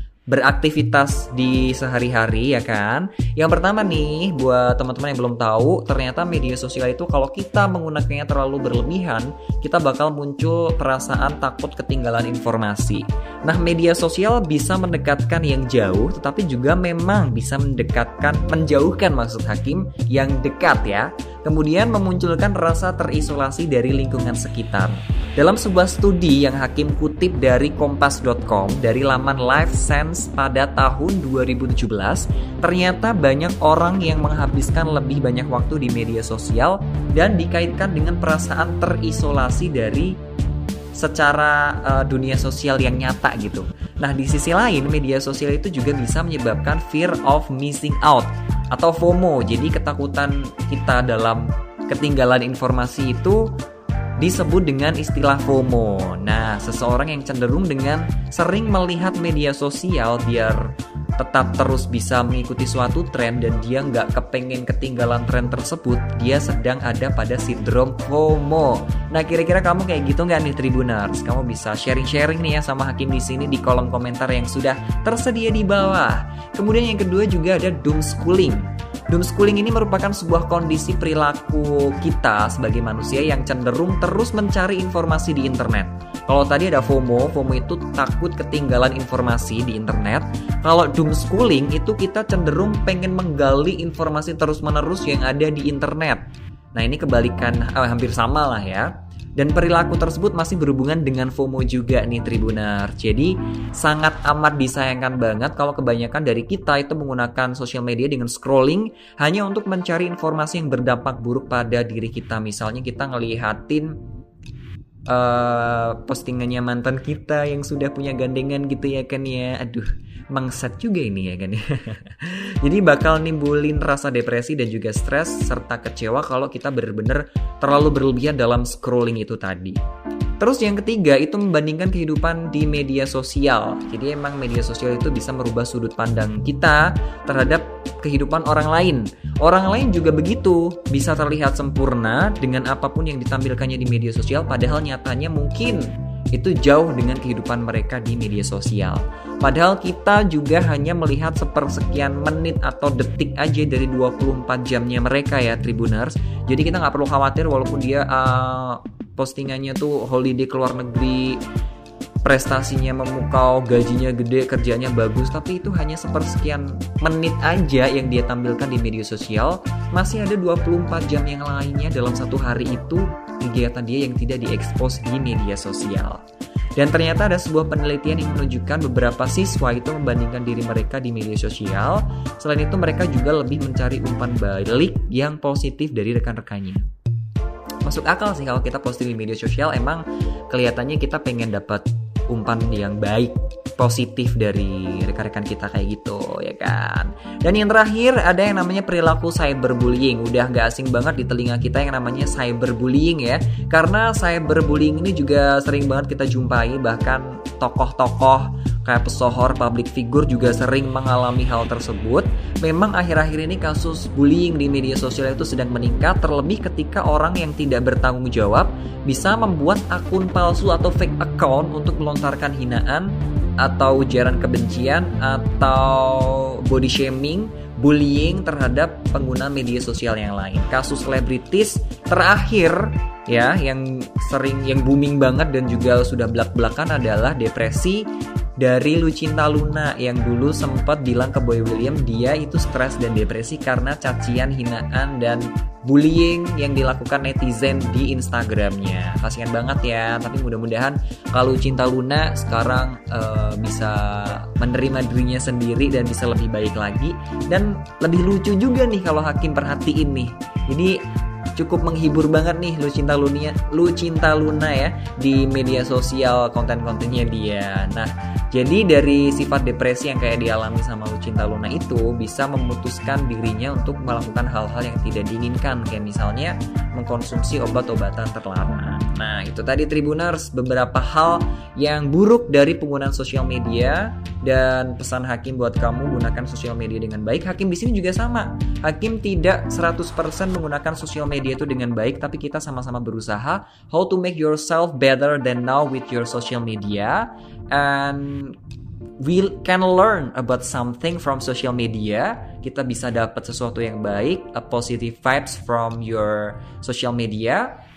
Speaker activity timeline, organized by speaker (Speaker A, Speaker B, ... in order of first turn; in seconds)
Speaker A: 0.3-40.2, 41.0-53.5, 54.2-96.2, 96.7-114.0, 115.1-129.8, 130.4-161.4, 162.2-176.2, 176.8-186.9, 187.8-238.1, 238.6-261.0, 261.6-298.6, 299.2-307.7